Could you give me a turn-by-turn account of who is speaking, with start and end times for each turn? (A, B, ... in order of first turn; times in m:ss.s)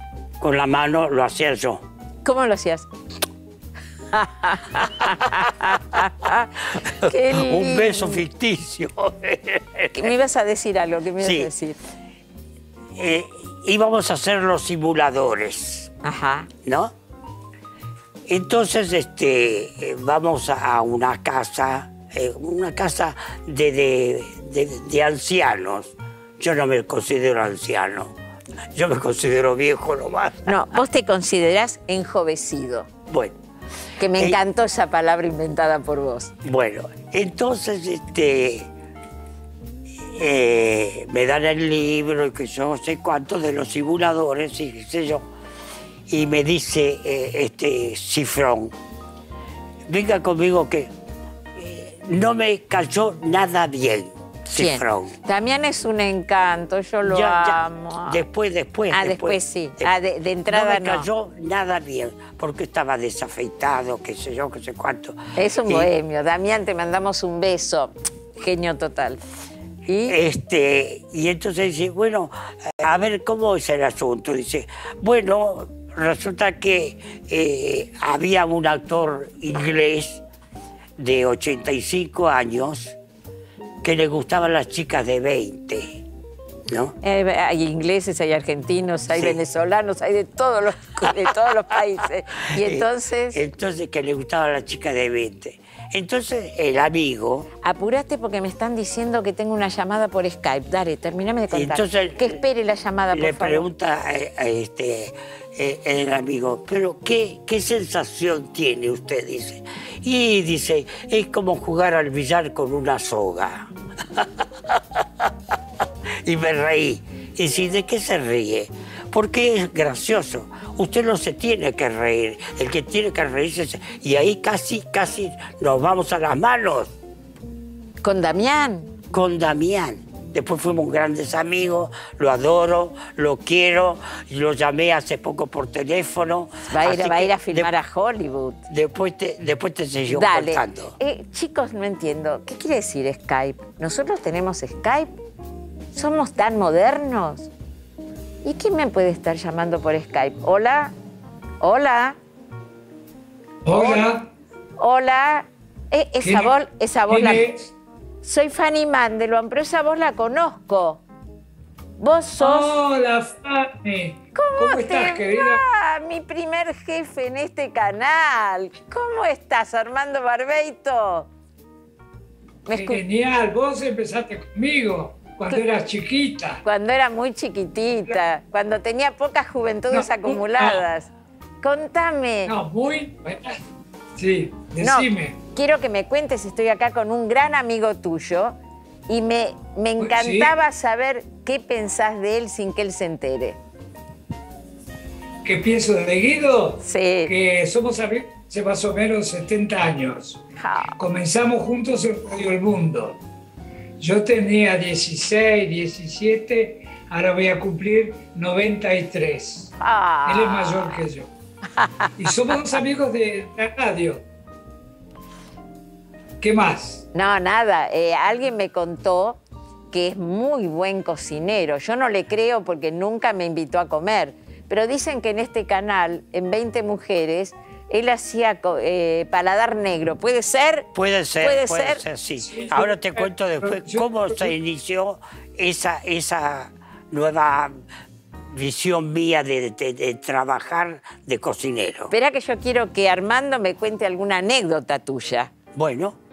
0:00.4-0:01.8 A
0:02.2-0:02.9 B
0:04.1-0:08.2 B
0:07.0-0:10.1 A
0:09.9-0:11.8 B
0:11.2-0:11.5 A
0:12.9-0:15.9 A
0:16.0-0:16.5 B
0:16.6-0:16.9 A
0:18.3-0:28.1 A
0:28.7-0:30.5 A
0:30.4-0:32.9 B
0:33.1-0:33.3 A
0:34.0-0:36.3 B
0:36.4-0:38.7 A
0:40.0-0:45.2 A
0:46.1-0:48.7 A
0:49.9-0:50.9 A
0:51.6-0:55.2 A
0:54.5-0:58.2 B
0:57.0-0:59.9 A
0:58.9-1:01.1 B
1:00.5-1:05.9 A
1:05.4-1:09.2 B
1:09.8-1:10.2 B
1:10.1-1:20.2 A
1:21.0-1:23.0 A
1:23.8-1:26.0 A
1:26.7-1:26.9 A
1:27.0-1:33.4 B
1:29.1-1:29.4 A
1:32.6-1:37.5 A
1:37.6-1:43.7 B
1:41.5-1:42.4 A
1:43.1-1:55.2 A
1:56.2-2:06.9 A
2:08.0-2:08.9 B
2:09.1-2:17.7 A
2:16.7-2:18.6 B
2:18.7-2:20.9 A
2:20.1-2:25.1 B
2:25.9-2:27.5 B
2:28.4-2:30.9 B
2:31.6-2:32.2 B
2:33.6-2:34.3 C
2:33.7-2:34.0 B
2:34.8-2:37.4 B
2:36.2-2:36.5 C
2:37.1-2:37.7 C
2:38.2-2:41.0 B
2:42.0-2:42.7 B
2:42.4-2:45.6 C
2:44.3-2:51.3 B
2:52.6-2:53.0 B
2:52.7-2:56.6 C
2:56.6-3:01.1 B
2:59.9-3:00.8 C
3:01.6-3:02.5 B
3:02.4-3:03.6 C
3:04.2-3:05.4 C
3:04.8-3:08.6 B
3:09.1-3:13.6 B
3:10.0-3:10.5 C
3:15.4-3:20.4 C
3:16.8-3:17.3 B
3:20.6-3:20.9 B
3:21.0-3:23.2 C
3:24.0-3:29.7 C
3:29.8-3:31.0 B
3:30.2-3:31.3 C
3:31.8-3:32.1 B
3:32.2-3:34.2 C
3:36.4-3:37.0 C
3:37.1-3:50.9 B
3:50.9-3:57.7 A
3:51.4-3:52.0 B
3:52.4-3:54.5 C
3:58.5-4:02.1 A
4:02.1-4:05.5 B
4:05.7-4:06.2 A